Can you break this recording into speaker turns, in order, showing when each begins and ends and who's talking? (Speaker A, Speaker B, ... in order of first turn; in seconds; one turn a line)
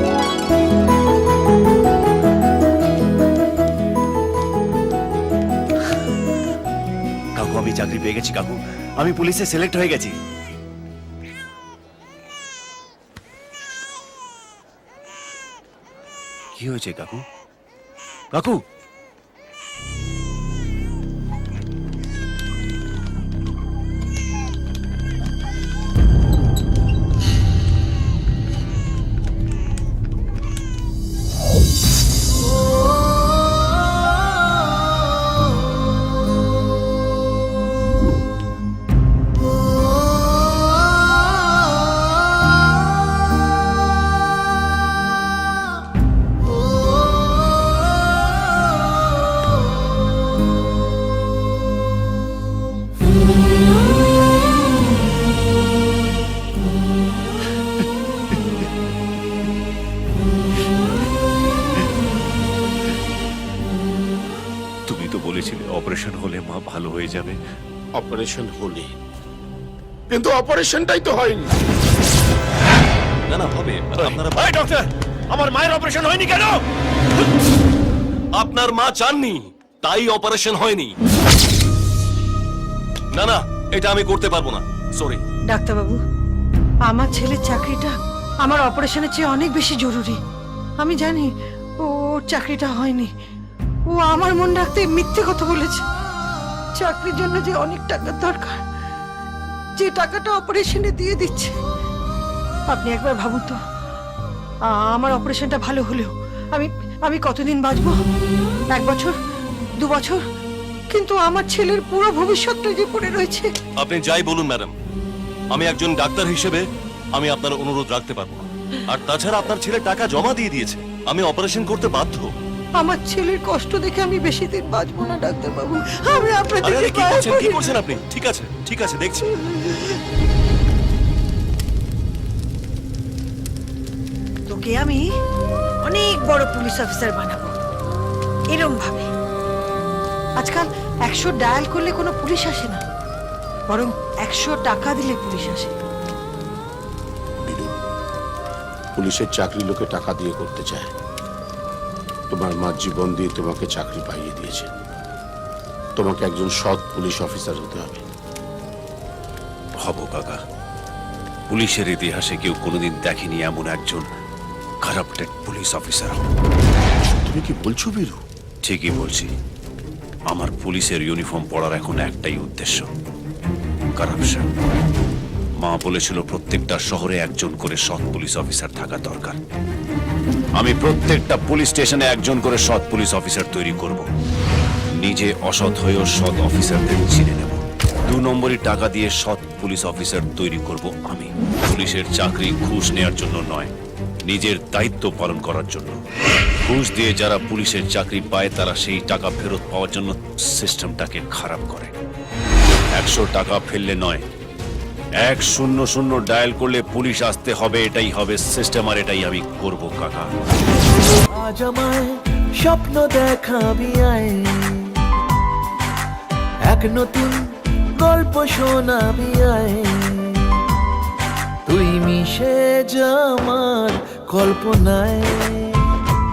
Speaker A: 7.3-10.1
Speaker A: 16.6-17.2
Speaker A: 18.3-18.6
Speaker A: 64.9-67.3
Speaker B: 68.0-69.0
Speaker B: 70.1-71.5
Speaker C: 73.3-74.5
Speaker A: 74.4-76.6
Speaker C: 78.3-80.9
Speaker C: 83.1-85.2
Speaker D: 85.5-86.0
Speaker D: 86.8-90.2
Speaker D: 90.8-93.1
Speaker D: 93.9-95.8
Speaker D: 96.7-98.6
Speaker D: 99.8-101.6
Speaker D: 102.7-103.6
Speaker D: 104.7-108.0
Speaker D: 108.7-109.1
Speaker D: 109.8-110.2
Speaker D: 110.9-113.5
Speaker C: 113.8-114.7
Speaker C: 115.5-122.3
Speaker D: 122.8-127.6
Speaker C: 126.6-129.9
Speaker D: 134.5-135.0
Speaker D: 135.8-137.5
Speaker D: 138.5-139.1
Speaker D: 140.4-142.8
Speaker D: 143.7-145.7
Speaker B: 147.4-147.8
Speaker B: 148.9-150.9
Speaker B: 152.3-154.7
Speaker B: 155.9-158.0
Speaker A: 159.8-160.4
Speaker A: 161.5-164.1
Speaker A: 164.8-166.2
Speaker B: 167.2-168.2
Speaker A: 168.6-169.3
Speaker A: 170.3-172.9
Speaker A: 174.0-174.5
Speaker A: 175.6-179.4
Speaker A: 180.6-184.1
Speaker A: 185.0-193.7
Speaker A: 194.2-196.0
Speaker A: 196.6-201.9
Speaker A: 202.9-204.2
Speaker A: 205.2-210.3
Speaker E: 211.3-215.1
Speaker E: 216.7-220.6
Speaker E: 221.7-226.0